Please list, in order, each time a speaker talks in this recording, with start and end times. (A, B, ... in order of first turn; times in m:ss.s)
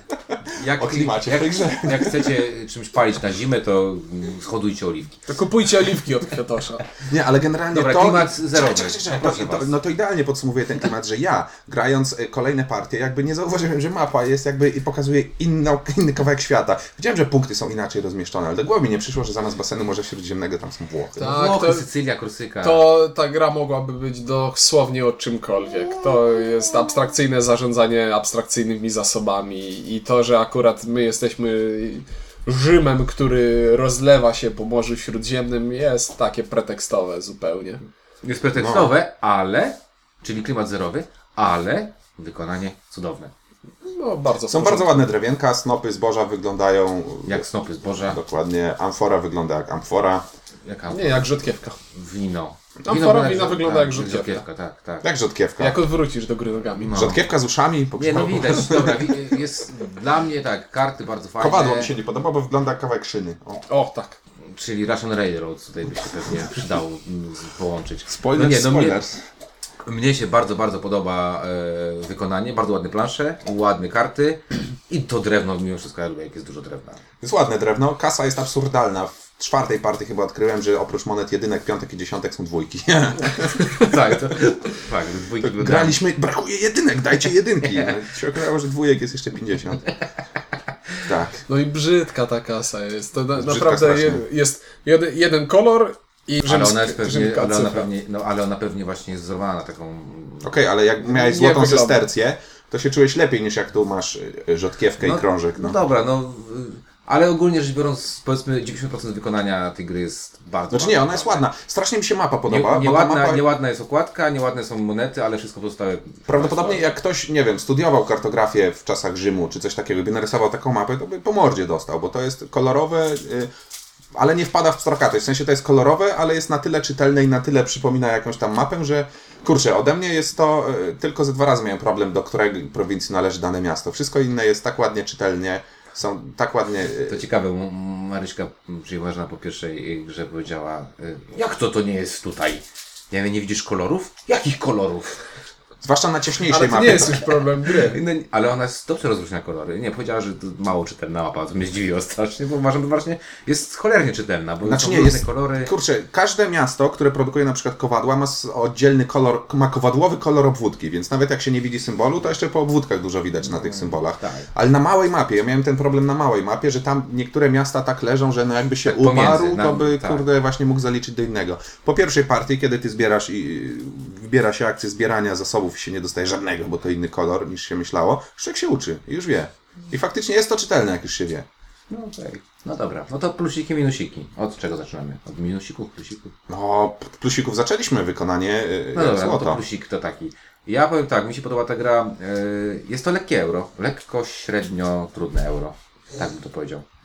0:00.5-0:05.2 A
0:00.7-0:02.4 B
0:05.3-0:06.9 C
0:07.0-0:21.2 B
0:07.7-0:09.8 A
0:21.2-0:21.9 C
0:21.2-0:22.9 A
0:22.6-0:37.8 C
0:38.2-0:43.3 A
0:38.6-0:38.9 B
0:43.8-0:45.1 C
0:44.5-0:47.4 B
0:47.2-0:48.2 A
0:48.1-0:50.2 B
0:50.6-0:51.3 A
0:50.9-0:51.8 C
0:51.9-0:55.1 A
0:52.8-0:54.4 C
0:55.0-0:55.8 B
0:55.6-0:57.1 C
0:56.8-0:57.2 A
0:56.9-0:59.2 B
0:58.0-1:01.9 A
1:01.4-1:03.6 B
1:03.7-1:04.2 C
1:04.6-1:09.1 A
1:08.1-1:09.1 B
1:09.8-1:17.0 A
1:17.2-1:23.7 B
1:23.6-1:26.0 A
1:25.4-1:29.9 B
1:27.6-1:27.9 A
1:31.0-1:31.4 B
1:31.5-1:37.9 C
1:33.4-1:34.2 B
1:36.4-1:40.5 A
1:40.4-1:45.8 B
1:41.1-1:42.1 C
1:45.0-1:51.4 A
1:50.7-1:53.4 B
1:52.5-1:56.9 A
1:56.3-2:03.5 B
2:04.1-2:17.2 B
2:17.0-2:25.2 A
2:25.8-2:27.2 B
2:26.5-2:28.0 C
2:27.9-2:35.7 A
2:34.6-3:01.4 B
2:43.4-2:44.5 A
2:48.8-2:50.2 A
3:01.9-3:06.3 A
3:06.5-3:09.6 B
3:08.9-3:16.8 A